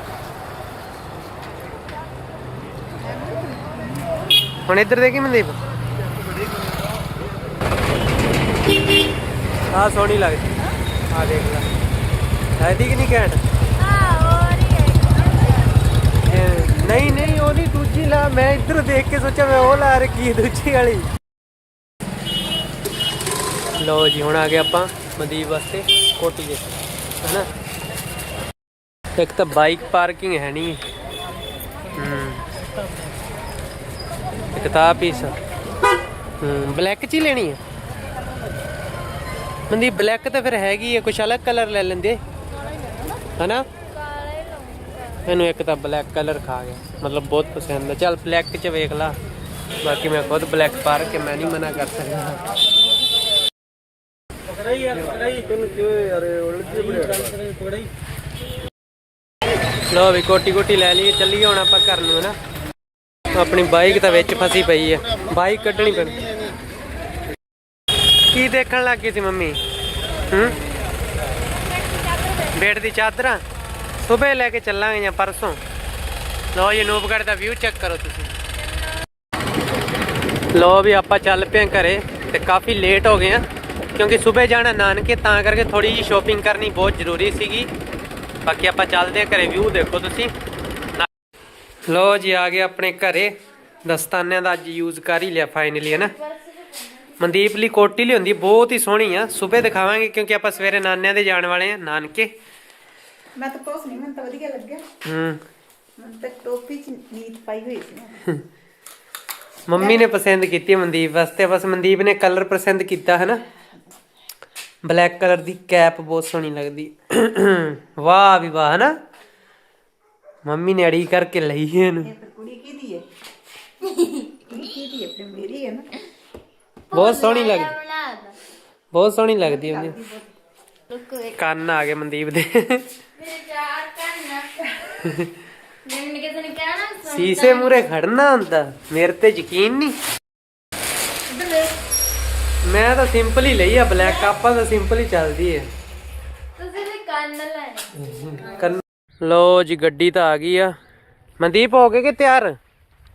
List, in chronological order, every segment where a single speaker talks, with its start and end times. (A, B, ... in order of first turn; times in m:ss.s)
0:03.0-0:04.1 A
0:04.7-0:05.6 B
0:09.7-0:10.6 B
0:11.1-0:11.7 B
0:12.6-0:13.4 B
0:13.8-0:15.8 C
0:16.2-0:21.1 B
0:16.7-0:17.3 C
0:23.8-0:27.5 B
0:29.2-0:30.8 B
0:32.0-0:32.4 B
0:34.5-0:35.4 B
0:36.4-0:37.6 B
0:39.7-0:42.2 B
0:42.7-0:43.1 C
0:43.4-0:43.7 B
0:43.9-0:45.2 C
0:45.2-0:49.2 B
0:49.8-0:52.4 B
0:54.9-0:55.3 B
0:59.9-1:02.4 B
1:03.3-1:06.3 B
1:08.3-1:09.6 B
1:10.3-1:10.6 B
1:12.5-1:13.4 B
1:14.0-1:15.6 B
1:16.5-1:18.3 B
1:20.5-1:23.4 B
1:24.0-1:27.7 B
1:28.4-1:30.3 B
1:31.9-1:36.1 B
1:35.9-1:37.3 C
1:37.2-1:42.3 B
1:43.4-1:44.8 A
1:45.0-1:45.4 B
1:46.0-1:48.2 A
1:49.7-1:53.4 B
1:49.8-1:50.0 A
1:54.8-1:58.9 B
2:00.5-2:02.1 B
2:02.0-2:03.0 A
2:03.9-2:04.3 C
2:04.5-2:05.9 A
2:06.9-2:08.4 C
2:06.9-2:07.7 B
2:08.9-2:10.0 B
2:09.4-2:10.3 A
2:10.9-2:11.4 C
2:11.4-2:12.8 B
2:13.2-2:14.7 C
2:15.0-2:15.3 B
2:15.8-2:17.8 C
2:17.0-2:20.0 B
2:21.4-2:21.7 A
2:22.6-2:25.7 B
2:26.6-2:28.5 C
2:28.5-2:30.8 B
2:31.4-2:32.6 B